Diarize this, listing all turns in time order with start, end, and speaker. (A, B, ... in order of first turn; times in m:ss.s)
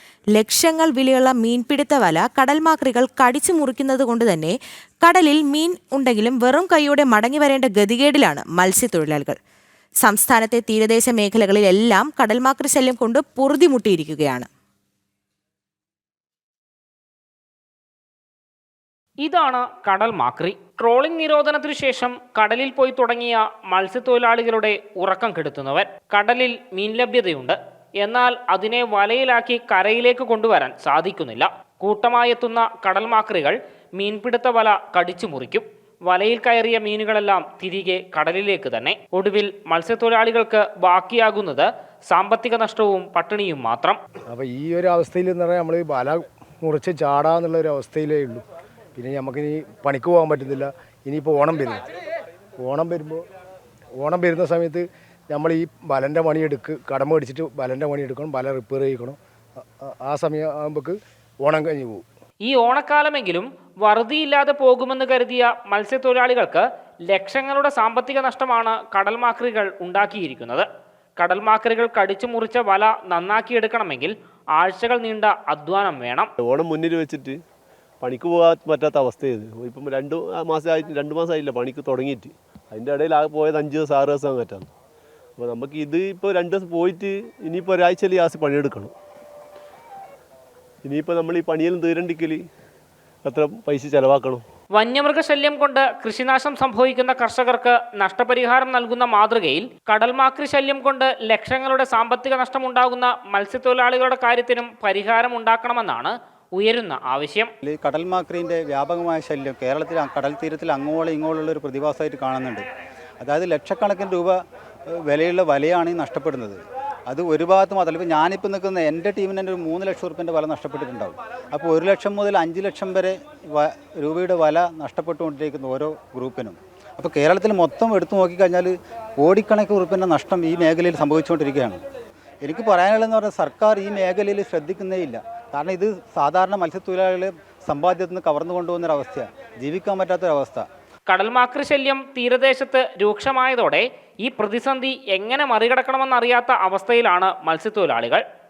0:00.3-0:09.4 A
0:10.0-0:14.5 A
0:19.2-0:44.0 B
0:44.3-0:48.4 C
0:49.0-0:51.8 C
0:52.6-0:53.2 C
0:54.0-0:59.2 C
0:59.8-1:02.0 C
1:02.4-1:10.7 B
1:11.2-1:16.3 B
1:16.4-1:17.4 D
1:18.0-1:24.7 D
1:25.4-1:28.9 D
1:30.8-1:32.4 D
1:33.2-1:34.4 D
1:34.7-1:47.5 B
1:47.6-1:52.7 E
1:53.2-1:54.4 E
1:54.9-2:11.8 E
2:12.4-2:20.7 E
2:21.1-2:28.2 B